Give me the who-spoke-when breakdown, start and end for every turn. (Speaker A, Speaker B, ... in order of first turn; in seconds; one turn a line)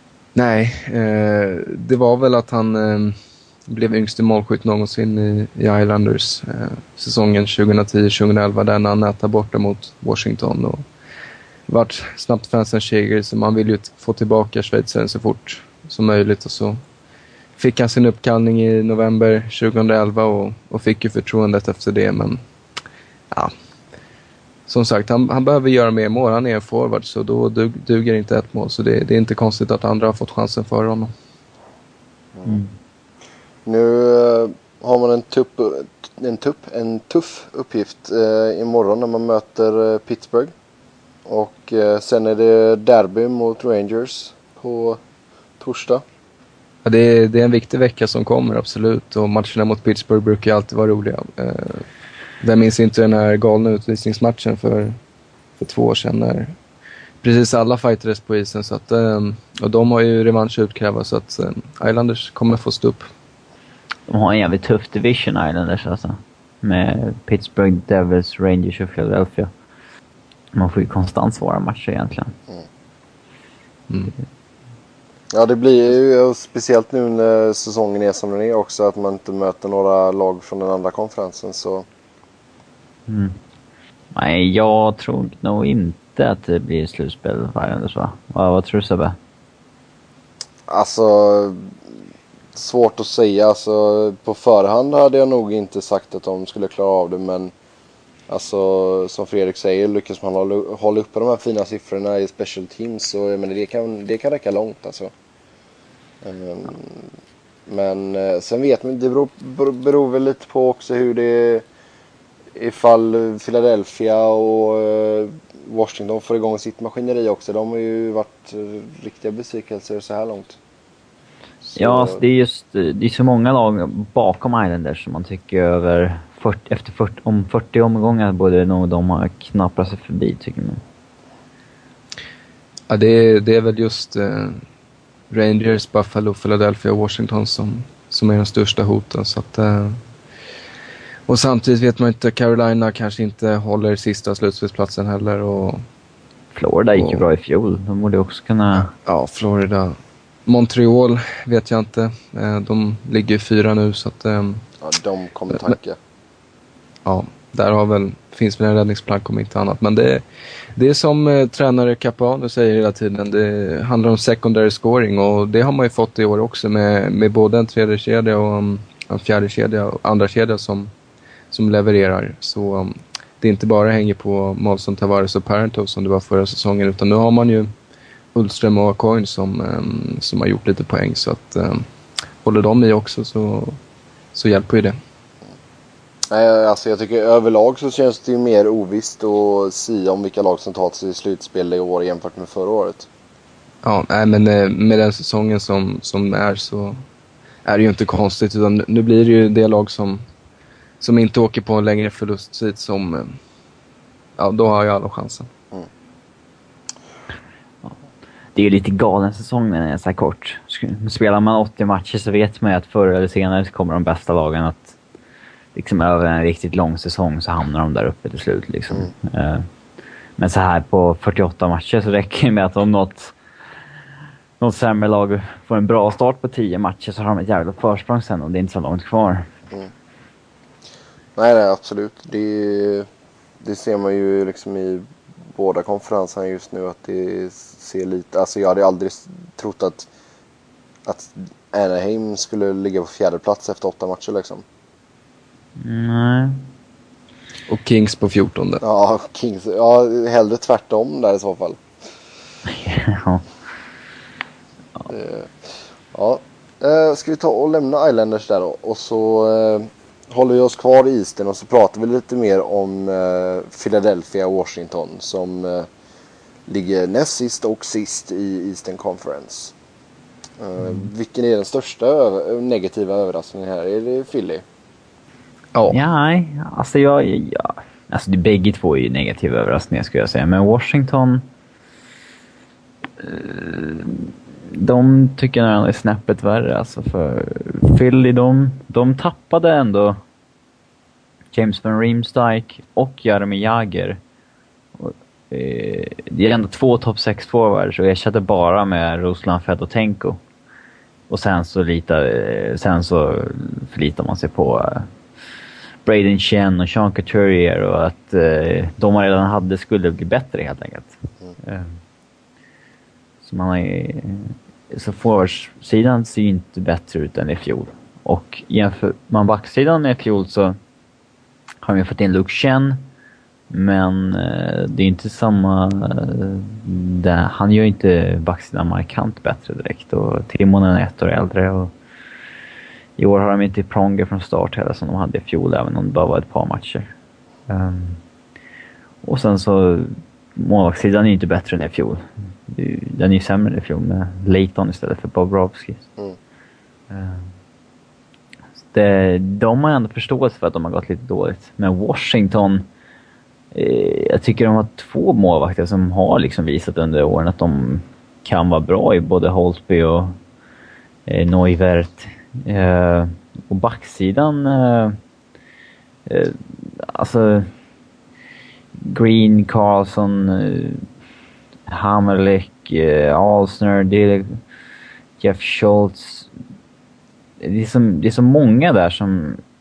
Speaker A: 0.3-10.8
Speaker A: 11.7-16.8
Speaker A: 17.6-22.4
Speaker A: 24.7-31.1
Speaker B: 32.3-32.6
Speaker C: 32.4-32.7
Speaker B: 33.6-40.5
Speaker B: 41.2-45.0
Speaker B: 45.6-46.0
Speaker A: 46.8-51.9
Speaker A: 52.4-55.0
Speaker A: 55.6-56.5
Speaker A: 57.2-63.1
Speaker C: 64.1-69.5
Speaker C: 70.5-72.3
Speaker A: 73.9-74.1
Speaker B: 75.3-81.9
Speaker C: 83.1-83.4
Speaker C: 84.1-89.2
Speaker B: 90.7-91.9
Speaker B: 92.5-97.5
Speaker B: 98.3-105.1
Speaker B: 106.2-107.1
Speaker B: 107.7-111.6
Speaker B: 112.5-120.6
Speaker B: 121.7-122.2
Speaker C: 121.8-130.8
Speaker A: 132.9-134.6
Speaker A: 135.3-140.0
Speaker A: 141.3-145.8
Speaker C: 146.5-148.9
Speaker A: 146.9-147.2
Speaker A: 148.8-154.6
Speaker B: 154.8-156.0
Speaker A: 157.0-160.2
Speaker A: 160.8-170.9
Speaker A: 171.5-177.7
Speaker A: 178.3-181.8
Speaker A: 182.4-183.8
Speaker A: 184.3-185.0
Speaker B: 186.3-193.1
Speaker A: 193.8-197.0
Speaker A: 197.6-200.2
Speaker A: 201.0-203.4
Speaker A: 204.4-205.5
Speaker C: 208.5-215.0
Speaker C: 215.7-219.7
Speaker C: 220.4-223.3
Speaker C: 224.6-229.5
Speaker B: 231.3-233.1
Speaker B: 233.6-240.1
Speaker B: 241.1-244.6
Speaker C: 245.8-246.6
Speaker A: 247.7-248.8
Speaker B: 248.8-251.8
Speaker C: 252.7-253.4
Speaker B: 255.1-265.9
Speaker B: 266.7-269.7
Speaker B: 270.6-274.6
Speaker C: 275.9-281.5
Speaker C: 283.2-290.2
Speaker C: 291.5-294.2
Speaker C: 295.0-300.4
Speaker C: 301.3-305.1
Speaker C: 306.0-312.0
Speaker C: 313.4-320.8
Speaker C: 321.8-323.1
Speaker C: 323.7-331.9
Speaker C: 333.2-337.1
Speaker C: 337.7-338.2
Speaker C: 339.2-346.1
Speaker C: 347.1-347.5
Speaker C: 348.9-352.9
Speaker C: 353.7-360.4
Speaker C: 361.3-365.2
Speaker C: 366.3-367.7
Speaker C: 369.0-371.1
Speaker C: 371.9-374.6
Speaker C: 375.4-376.5
Speaker C: 377.6-379.6